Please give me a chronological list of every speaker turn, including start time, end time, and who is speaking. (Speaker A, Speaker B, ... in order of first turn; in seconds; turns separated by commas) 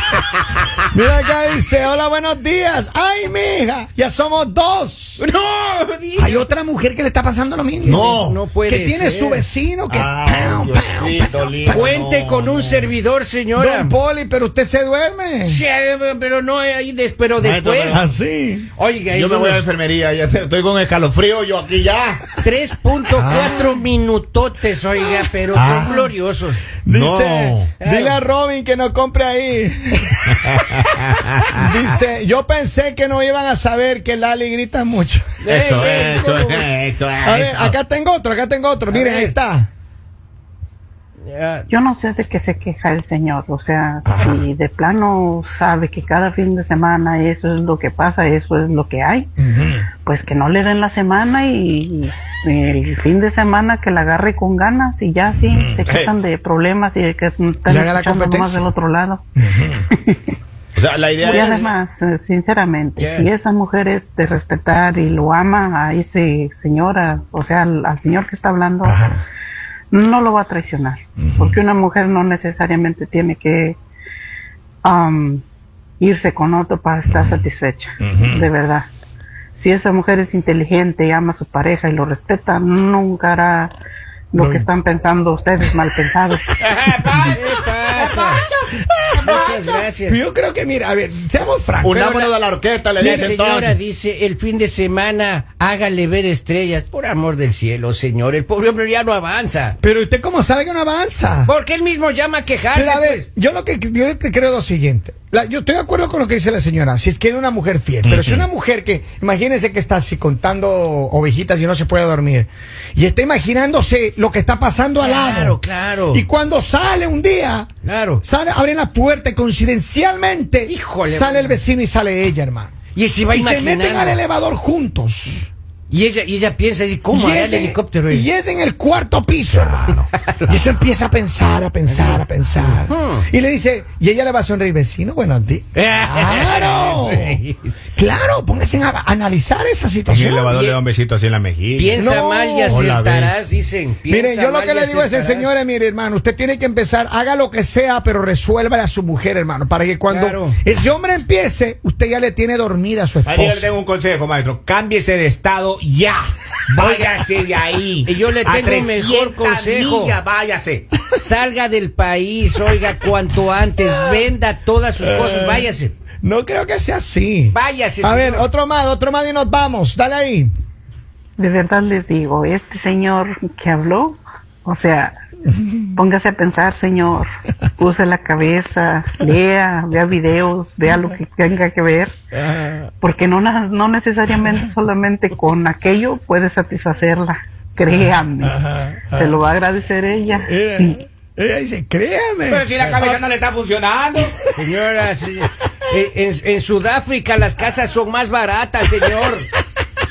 Speaker A: 0.9-5.2, Speaker B: 5.2-6.5, Speaker A: 6.2-8.1, Speaker C: 7.8-8.4, Speaker B: 7.8-9.4, Speaker A: 8.7-11.9, Speaker C: 9.9-12.9, Speaker B: 11.7-13.9, Speaker A: 13.5-15.6, Speaker B: 15.4-18.0, Speaker C: 17.4-18.1, Speaker A: 17.9-18.7, Speaker B: 18.8-19.6, Speaker C: 19.1-22.4, Speaker B: 22.4-26.6, Speaker A: 23.1-23.9, Speaker A: 25.0-26.1, Speaker C: 25.5-25.9, Speaker A: 26.8-30.9, Speaker C: 26.9-27.7, Speaker B: 27.8-28.2, Speaker C: 30.5-31.6, Speaker A: 31.5-35.4, Speaker B: 35.4-36.7, Speaker C: 35.5-37.8, Speaker A: 37.2-39.7, Speaker B: 38.9-39.4, Speaker B: 41.2-41.7, Speaker D: 41.7-49.3, Speaker A: 44.0-44.4, Speaker A: 49.4-49.9, Speaker D: 50.0-59.2, Speaker A: 55.5-55.8, Speaker C: 55.9-56.1, Speaker A: 57.7-58.7, Speaker A: 59.4-59.9, Speaker D: 59.9-60.2, Speaker C: 60.7-61.7, Speaker D: 61.2-69.0, Speaker B: 63.0-63.3, Speaker A: 68.8-69.2, Speaker D: 69.9-73.8, Speaker A: 71.2-71.6, Speaker D: 74.8-75.4, Speaker D: 76.0-78.9, Speaker A: 77.1-77.4, Speaker A: 78.0-78.5, Speaker D: 79.5-83.7, Speaker D: 84.3-86.5, Speaker A: 84.3-84.7, Speaker B: 86.7-88.4, Speaker A: 87.0-87.3, Speaker A: 88.0-92.0, Speaker B: 89.2-90.2, Speaker C: 91.8-93.8, Speaker B: 91.9-92.3, Speaker B: 93.0-99.8, Speaker A: 99.8-101.5, Speaker B: 101.5-103.3, Speaker A: 102.7-115.6, Speaker C: 108.0-108.4, Speaker B: 115.0-116.2, Speaker A: 116.1-117.7, Speaker B: 117.8-118.2, Speaker A: 118.2-122.7, Speaker B: 120.7-121.6, Speaker B: 122.9-124.2, Speaker A: 123.3-125.5, Speaker B: 125.9-128.3, Speaker A: 127.1-129.9, Speaker C: 129.5-130.5, Speaker B: 130.2-130.6, Speaker A: 130.5-137.4, Speaker B: 131.9-133.3, Speaker B: 135.7-137.7, Speaker A: 137.9-140.8, Speaker C: 140.1-143.5, Speaker B: 141.8-145.5, Speaker A: 142.0-142.9, Speaker A: 144.1-153.7, Speaker B: 150.1-150.6, Speaker C: 153.2-160.8, Speaker B: 158.1-160.2, Speaker B: 161.1-165.9, Speaker A: 163.8-164.3, Speaker A: 165.0-165.7, Speaker A: 166.2-170.5, Speaker B: 167.5-168.4, Speaker D: 171.4-175.1, Speaker D: 175.9-177.2, Speaker D: 177.8-182.2, Speaker A: 182.3-182.9, Speaker D: 183.0-188.6, Speaker A: 187.9-189.4, Speaker D: 189.1-190.9, Speaker A: 190.4-193.2, Speaker C: 192.4-194.3, Speaker A: 194.1-194.5, Speaker B: 194.5-199.5